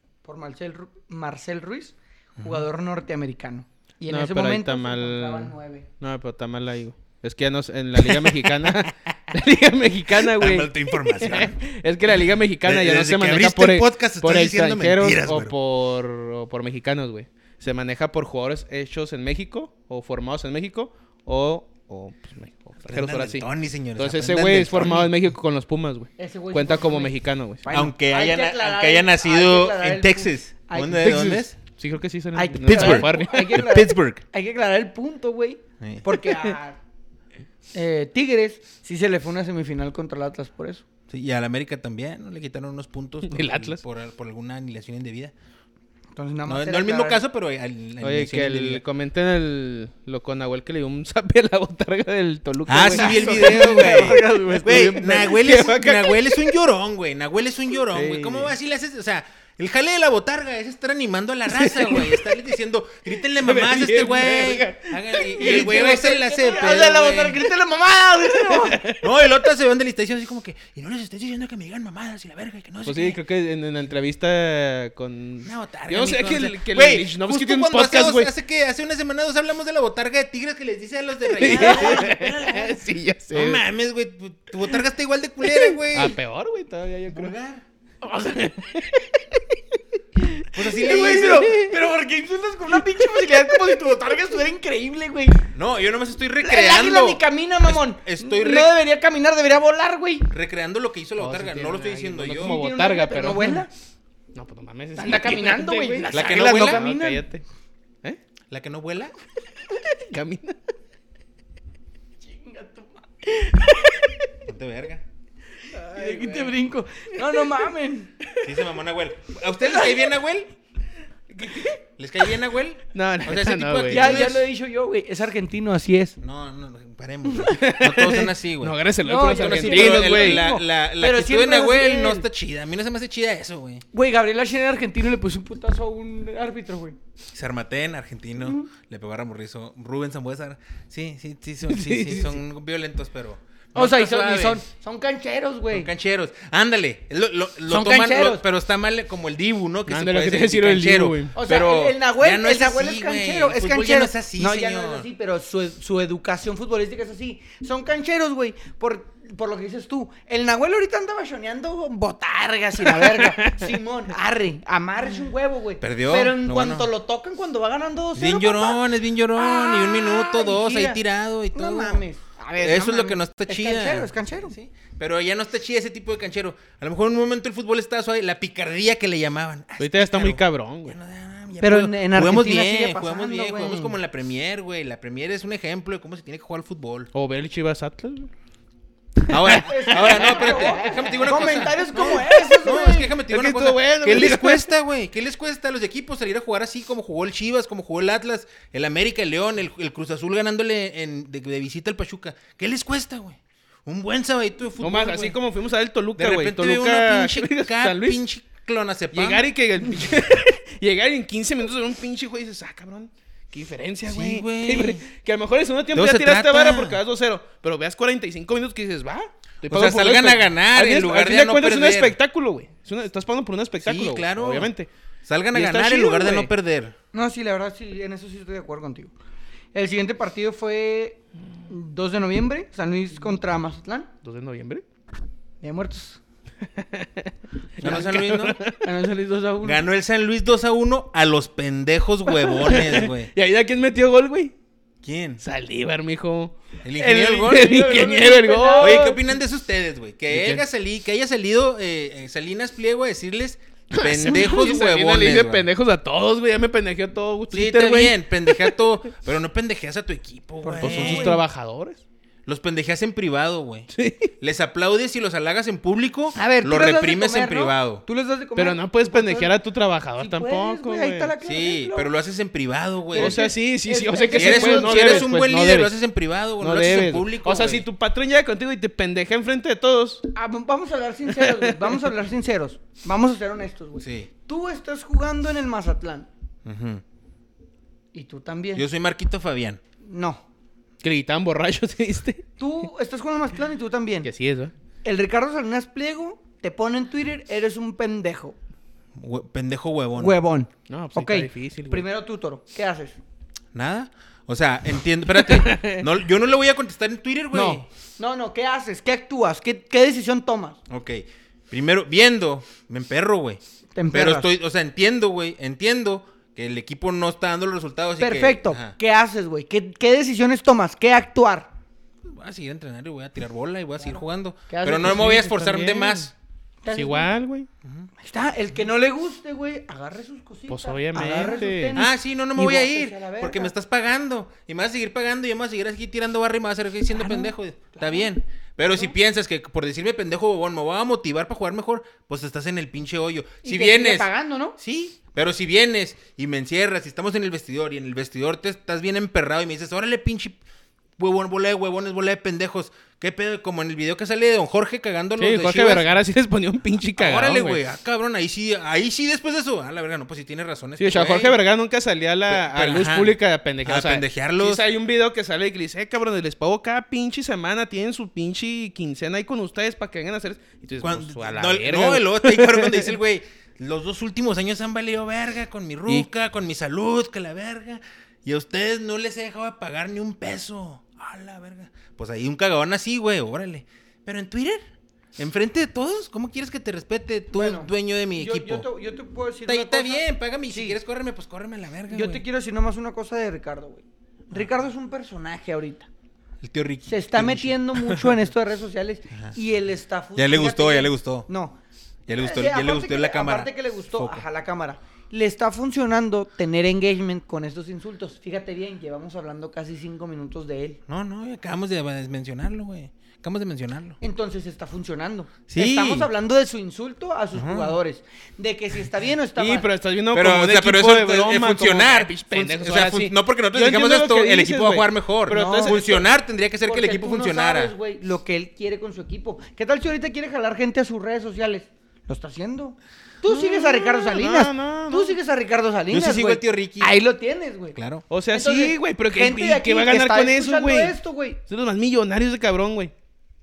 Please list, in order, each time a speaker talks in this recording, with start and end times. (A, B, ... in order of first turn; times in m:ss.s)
0:00.2-0:05.9 A
0:02.4-0:02.6 B
0:04.1-0:27.6 C
0:08.0-0:08.9 B
0:10.1-0:11.6 B
0:12.6-0:15.5 B
0:22.9-0:25.1 B
0:26.2-0:31.2 A
0:27.7-0:31.5 B
0:31.0-0:33.6 C
0:32.3-0:36.8 A
0:32.6-0:34.2 B
0:37.7-0:40.8 A
0:41.1-0:45.3 B
0:43.2-0:43.8 C
0:46.1-0:47.2 A
0:46.4-0:48.8 B
0:48.0-0:56.5 C
0:52.7-1:07.4 B
0:52.9-0:54.6 A
0:57.8-0:58.5 C
1:01.5-1:02.4 C
1:03.3-1:06.0 C
1:05.4-1:08.8 A
1:08.4-1:09.2 C
1:09.0-1:13.2 B
1:12.8-1:18.3 C
1:15.4-1:26.2 B
1:21.3-1:23.6 C
1:21.5-1:22.1 A
1:25.5-1:27.3 C
1:27.1-1:27.6 B
1:28.0-1:29.6 C
1:30.2-1:31.7 C
1:30.5-1:31.5 B
1:30.7-1:35.5 A
1:35.5-1:38.7 B
1:36.4-1:40.3 A
1:40.3-1:42.6 B
1:41.2-1:43.6 C
1:42.3-1:43.7 A
1:44.3-1:47.4 C
1:45.0-1:47.2 A
1:46.1-1:46.8 B
1:48.5-1:49.1 B
1:49.7-1:50.6 C
1:52.2-1:53.0 A
1:53.3-1:54.1 C
1:54.4-1:55.0 B
1:55.7-1:58.1 A
1:55.7-1:56.6 C
1:57.3-1:57.6 C
1:58.3-1:58.5 C
1:58.4-2:00.5 B
2:01.3-2:01.7 C
2:02.0-2:04.4 B
2:02.9-2:04.3 C
2:03.9-2:06.2 A
2:06.2-2:08.8 B
2:07.4-2:10.5 C
2:09.0-2:12.2 A
2:09.3-2:13.8 B
2:13.9-2:17.0 A
2:17.3-2:24.6 B
2:21.7-2:22.4 C
2:23.7-2:25.9 A
2:25.7-2:35.1 B
2:27.7-2:28.4 A
2:29.9-2:31.4 C
2:31.3-2:51.0 A
2:42.8-2:43.7 C
2:45.8-2:46.9 B
2:48.2-2:52.0 B
2:51.5-2:54.5 A
2:52.6-3:07.1 B
2:59.8-3:01.0 C
3:01.6-3:04.0 A
3:07.1-3:08.3 C
3:09.2-3:14.7 C
3:09.3-3:25.4 B
3:09.5-3:13.1 A
3:24.8-3:28.2 C
3:26.2-3:29.4 B
3:29.1-3:44.9 C
3:34.0-3:35.0 B
3:35.9-3:37.0 B
3:39.6-3:42.2 B
3:43.8-3:44.7 B
3:45.2-3:46.9 B
3:45.5-3:46.5 C
3:47.1-3:49.1 A
3:49.7-3:54.1 A
3:54.2-3:54.8 C
3:55.6-3:56.2 A
3:56.7-3:58.8 C
3:57.8-3:58.6 B
3:57.8-3:58.1 A
3:58.6-3:59.8 A
3:59.6-4:03.3 B
4:02.4-4:04.5 C
4:05.0-4:05.4 B
4:05.4-4:09.2 C
4:06.8-4:08.0 B
4:07.5-4:09.2 A
4:08.8-4:15.7 B
4:10.3-4:10.6 C
4:13.9-4:18.8 C
4:17.5-4:21.4 B
4:20.6-4:21.4 A
4:20.8-4:22.0 C
4:22.4-4:28.0 B
4:23.9-4:24.3 C
4:26.3-4:29.5 A
4:28.6-4:31.3 C
4:30.2-4:32.1 A
4:31.4-4:33.4 B
4:33.1-4:35.3 A
4:33.1-4:35.9 C
4:34.3-4:37.8 B
4:36.6-4:40.3 C
4:40.3-4:46.3 A
4:41.3-4:41.9 C
4:44.0-4:44.3 B
4:46.6-4:47.0 B
4:48.1-4:48.8 A
4:48.7-4:49.8 B
4:50.0-4:50.4 A
4:51.0-4:52.4 C
4:52.6-4:54.3 A
4:54.2-4:54.7 C
4:55.0-4:58.6 A
4:59.1-5:00.4 B
5:00.2-5:03.2 A
5:00.9-5:02.0 C
5:03.7-5:07.9 B
5:05.4-5:06.1 C
5:07.5-5:10.8 A
5:10.9-5:13.6 B
5:13.9-5:14.5 A
5:14.1-5:18.9 B
5:18.2-5:21.7 A
5:22.2-5:26.3 B
5:24.0-5:25.6 A
5:25.0-5:26.3 C
5:26.8-5:27.3 A
5:26.9-5:27.7 C
5:27.8-5:28.1 B
5:28.2-5:33.7 A
5:30.7-5:32.0 C
5:31.9-5:50.6 B
5:37.1-5:38.3 A
5:43.6-5:44.8 A
5:51.2-5:56.1 B
5:55.4-5:57.8 C
5:57.2-6:01.6 B
6:01.0-6:13.1 C
6:02.5-6:04.8 B
6:11.0-6:24.8 B
6:25.4-6:28.8 B
6:27.5-6:31.0 A
6:29.6-6:32.4 B
6:32.1-6:36.1 A
6:36.6-6:38.3 B
6:37.0-6:41.8 A
6:40.4-6:41.5 B
6:42.3-6:44.4 B
6:42.3-6:51.0 A
6:51.1-6:54.2 B
6:54.2-6:59.9 A
6:55.7-6:56.3 B
6:57.5-6:58.0 B
6:59.6-7:06.1 C
7:00.3-7:07.9 B
7:05.5-7:06.3 A
7:06.8-7:18.0 A
7:13.4-7:15.4 C
7:16.1-7:17.1 B
7:17.9-7:18.2 B
7:18.3-7:21.2 C
7:18.5-7:21.6 A
7:21.7-7:23.1 C